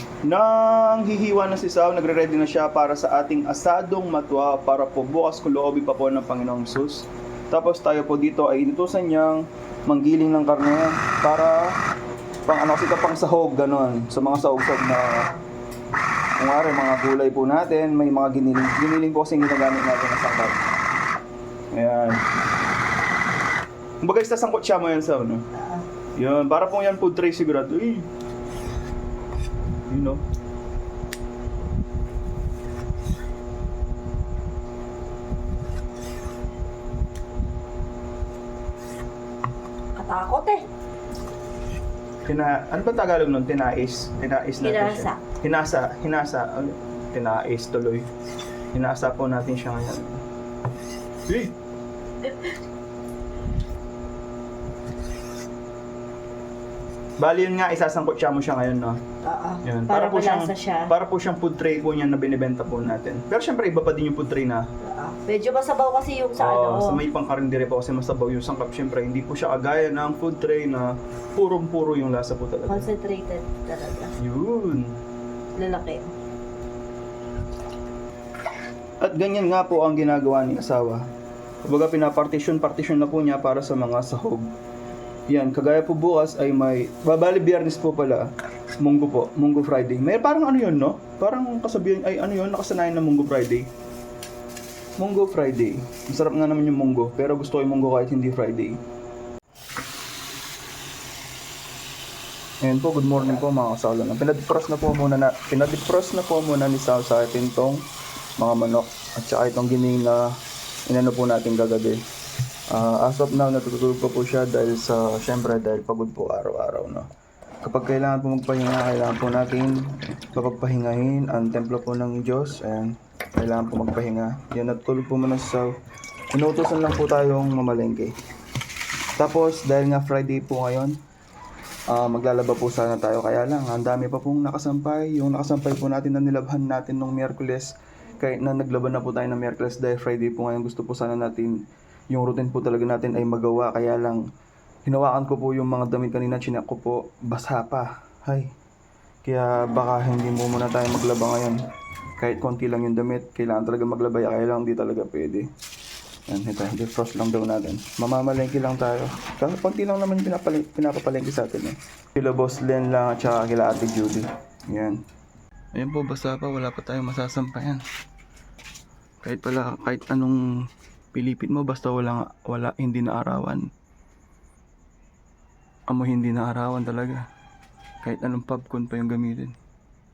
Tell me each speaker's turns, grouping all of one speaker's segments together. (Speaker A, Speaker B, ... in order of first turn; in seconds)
Speaker A: 0.2-11.7, 12.5-15.3, 16.4-20.6, 21.7-22.2, 24.0-25.4, 26.2-28.1, 29.9-30.2, 42.3-48.0, 48.7-50.2, 51.3-51.5, 57.2-59.0, 59.6-64.6, 66.4-72.9, 74.2-75.0, 79.0-81.0, 81.6-84.5, 85.3-88.3, 88.8-93.7, 95.0-98.8, 102.6-107.8, 108.4-110.2, 110.9-112.0, 112.7-117.0, 117.6-125.7, 126.3-128.1, 129.2-130.9, 131.9-141.6, 142.1-144.2, 144.8-148.5, 149.2-151.6, 152.2-155.4, 156.3-165.0, 165.7-167.8, 169.2-170.4, 171.1-173.6, 175.9-177.2, 178.0-179.5
Speaker B: 15.1-15.4, 40.0-40.6, 44.6-45.2, 59.2-60.9, 64.8-67.0, 72.7-74.1, 75.5-76.1